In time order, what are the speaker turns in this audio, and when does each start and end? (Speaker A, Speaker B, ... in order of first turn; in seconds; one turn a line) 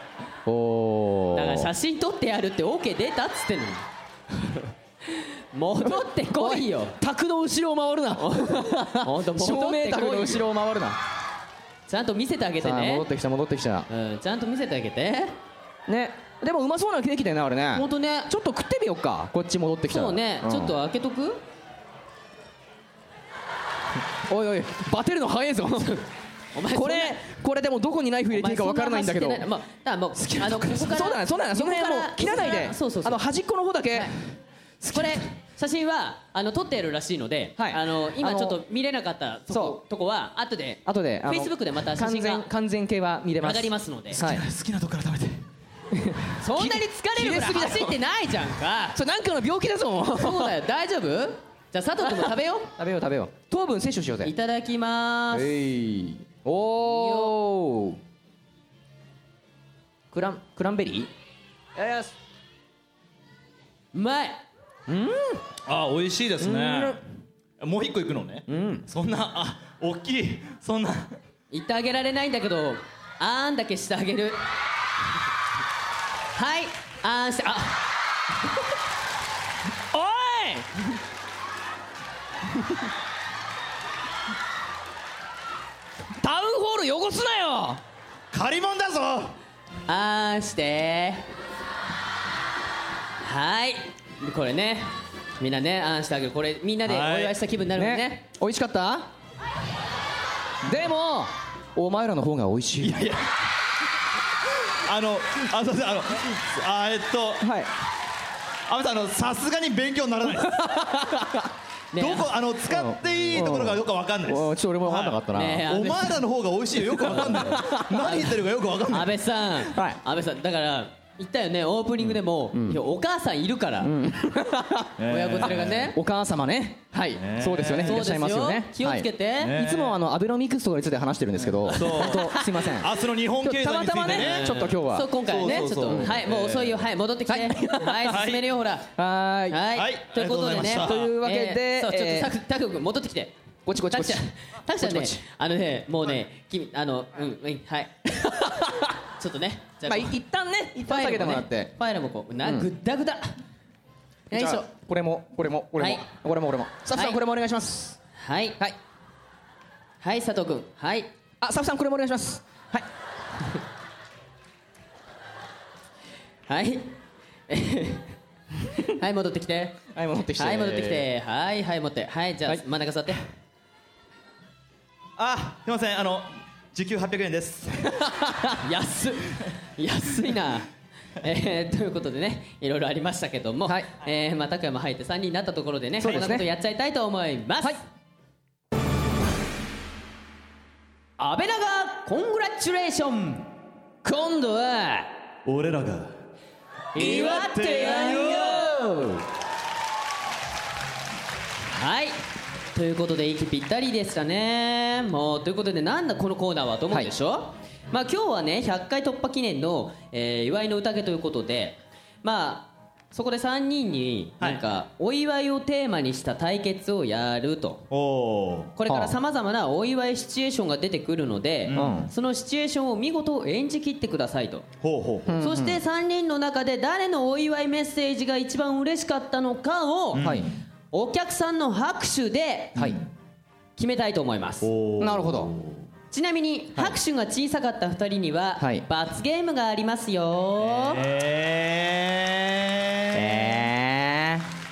Speaker A: 0.5-1.7
Speaker B: 1.3-3.9
Speaker B: 5.1-7.0
Speaker A: 5.9-11.0
Speaker B: 8.2-10.5
Speaker B: 11.9-13.1
Speaker A: 12.6-13.9
Speaker B: 13.9-15.4
Speaker A: 15.9-20.7
Speaker B: 17.7-18.3
Speaker B: 19.9-21.4
Speaker A: 24.3-26.0
Speaker B: 26.5-27.2
Speaker A: 26.7-29.5
Speaker B: 28.3-33.2
Speaker A: 30.2-34.2
Speaker A: 34.8-35.2
Speaker B: 34.9-42.5
Speaker A: 37.6-38.6
Speaker A: 39.5-39.8
Speaker A: 40.9-44.4
Speaker B: 43.4-44.2
Speaker C: 44.2-45.4
Speaker A: 46.0-48.0
Speaker B: 46.4-49.0
Speaker A: 48.9-50.5
Speaker B: 50.1-52.7
Speaker A: 52.1-54.3
Speaker B: 54.2-55.5
Speaker A: 55.3-58.0
Speaker B: 56.8-57.4
Speaker A: 60.1-61.1
Speaker A: 61.8-62.1
Speaker B: 63.9-64.5
Speaker A: 64.9-65.4
Speaker C: 65.7-67.0
Speaker A: 66.4-67.0
Speaker C: 67.6-71.2
Speaker A: 68.5-68.8
Speaker B: 71.5-74.4
Speaker B: 76.3-77.8
Speaker A: 79.9-80.7
Speaker A: 86.2-87.8
Speaker C: 88.3-89.4
Speaker B: 89.9-91.2
Speaker B: 93.2-98.2
Speaker C: 96.9-97.4
Speaker A: 97.8-99.1
Speaker A: 100.6-103.1
Speaker C: 102.8-103.2
Speaker C: 104.9-107.5
Speaker A: 107.4-107.7
Speaker C: 108.7-110.8
Speaker A: 110.3-111.5
Speaker B: 111.9-112.3
Speaker C: 112.0-119.1
Speaker A: 112.7-115.7
Speaker B: 115.3-116.2
Speaker A: 117.0-118.3
Speaker B: 117.0-118.3
Speaker B: 118.9-123.9
Speaker A: 122.5-122.8
Speaker A: 123.8-136.2
Speaker C: 125.0-125.9
Speaker B: 125.1-126.0
Speaker C: 127.2-128.0
Speaker B: 127.8-129.6
Speaker C: 129.4-130.0
Speaker C: 131.4-132.3
Speaker B: 131.7-132.5
Speaker C: 132.8-136.9
Speaker B: 134.1-138.9
Speaker A: 137.3-138.1
Speaker C: 138.1-138.4
Speaker A: 139.0-139.6
Speaker B: 139.5-143.3
Speaker C: 139.7-141.0
Speaker A: 140.6-142.3
Speaker A: 143.7-144.2
Speaker B: 143.9-148.1
Speaker A: 144.8-145.2
Speaker A: 148.3-148.9
Speaker B: 149.2-150.2
Speaker A: 149.9-151.7
Speaker B: 150.8-153.3
Speaker B: 154.3-154.7
Speaker A: 154.3-158.0
Speaker B: 155.8-156.1
Speaker B: 156.9-157.2
Speaker B: 158.2-158.6
Speaker B: 160.0-161.1
Speaker A: 161.4-162.8
Speaker B: 166.5-168.2
Speaker B: 168.8-169.8
Speaker A: 169.9-171.1
Speaker B: 170.4-173.2
Speaker C: 175.2-177.9
Speaker B: 178.6-180.7
Speaker B: 181.2-187.8
Speaker A: 186.0-186.5
Speaker B: 191.2-193.5
Speaker A: 194.1-194.8
Speaker B: 194.4-195.0
Speaker C: 195.4-196.2
Speaker B: 196.9-198.6
Speaker C: 196.9-198.7
Speaker A: 196.9-199.2
Speaker B: 201.7-202.2
Speaker B: 202.7-217.9
Speaker C: 217.9-218.7
Speaker B: 218.8-224.7
Speaker A: 218.9-219.2
Speaker C: 221.7-222.1
Speaker A: 221.7-222.1
Speaker C: 224.8-225.3
Speaker A: 225.2-225.8
Speaker B: 225.4-230.3
Speaker C: 230.2-230.5
Speaker A: 230.2-230.5
Speaker B: 230.9-232.8
Speaker B: 233.8-234.7
Speaker C: 234.6-235.9
Speaker A: 235.0-235.5
Speaker B: 236.1-241.1
Speaker A: 238.6-238.8
Speaker C: 240.6-243.6
Speaker A: 243.1-244.4